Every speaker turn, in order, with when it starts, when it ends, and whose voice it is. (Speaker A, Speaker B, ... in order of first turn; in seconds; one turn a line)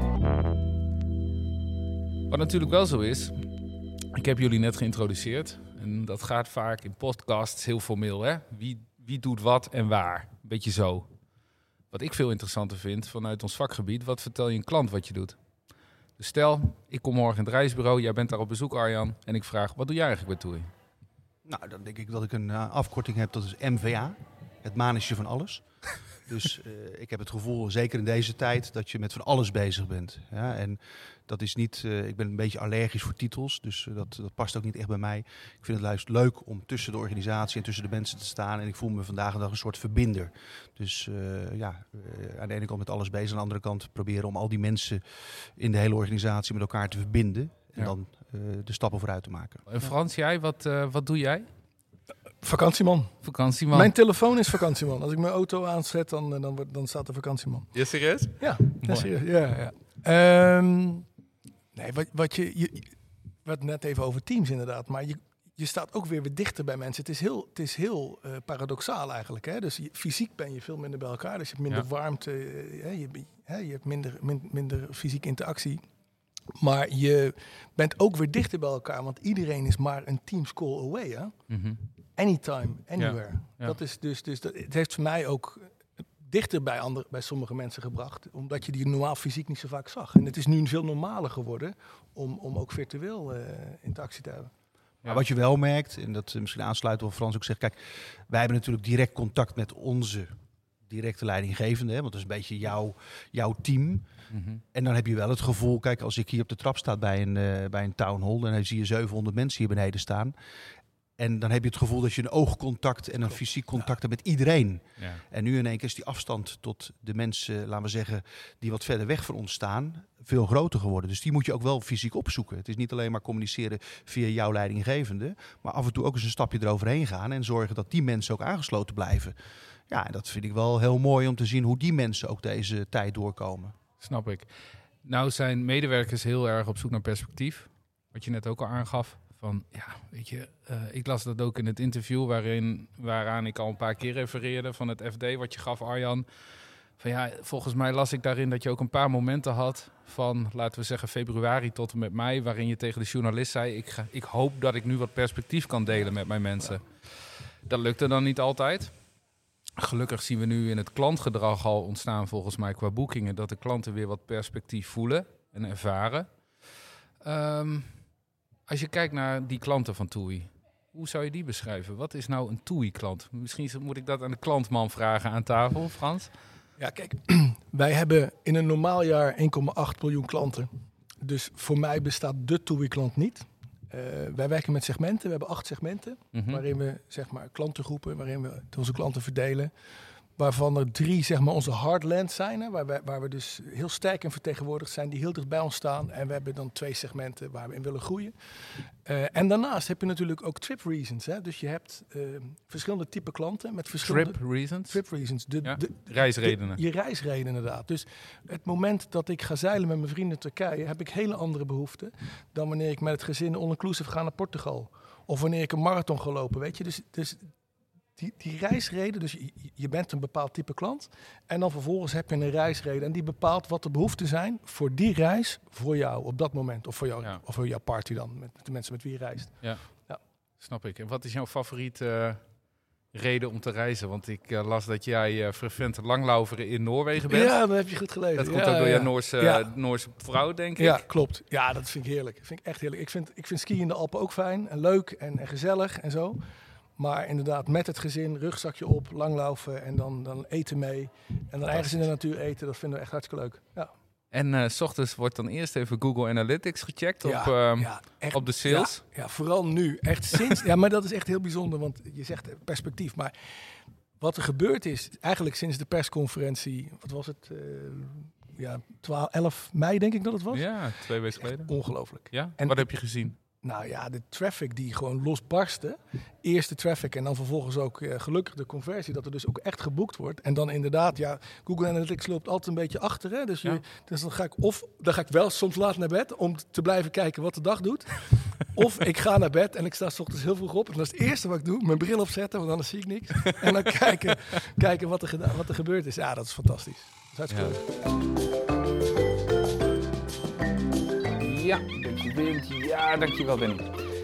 Speaker A: 2.3-3.4
Speaker A: 4.1-11.1
Speaker A: 11.9-15.4
Speaker A: 16.2-20.7
Speaker B: 21.4-49.6
Speaker A: 49.7-51.5
Speaker C: 52.4-57.7
Speaker A: 53.2-53.9
Speaker A: 57.7-59.1
Speaker C: 58.4-61.0
Speaker C: 61.7-75.8
Speaker C: 76.5-81.3
Speaker A: 81.5-81.8
Speaker C: 82.2-94.5
Speaker A: 83.0-83.8
Speaker B: 95.0-100.3
Speaker B: 100.9-104.0
Speaker A: 104.3-104.6
Speaker B: 104.7-110.3
Speaker B: 111.2-129.3
Speaker A: 115.0-115.2
Speaker B: 129.9-133.7
Speaker A: 134.0-134.5
Speaker A: 135.0-146.2
Speaker A: 147.0-156.8
Speaker A: 157.7-158.9
Speaker A: 159.8-166.3
Speaker A: 167.2-168.0
Speaker A: 168.7-176.3
Speaker C: 176.8-180.7
Speaker C: 181.2-189.7
Speaker A: 186.3-186.6
Speaker C: 190.4-217.5
Speaker A: 204.0-205.0
Speaker A: 205.6-206.8
Speaker C: 218.2-230.2
Speaker A: 229.6-229.9
Speaker A: 230.6-232.4
Speaker A: 233.1-237.5
Speaker C: 237.3-239.7
Speaker A: 238.3-241.0
Speaker C: 240.8-246.5
Speaker C: 247.0-253.9
Speaker A: 254.3-259.0
Speaker C: 257.2-272.9
Speaker A: 270.5-271.7
Speaker A: 272.3-273.3
Speaker C: 273.6-297.8
Speaker A: 297.5-297.8
Speaker A: 301.4-303.9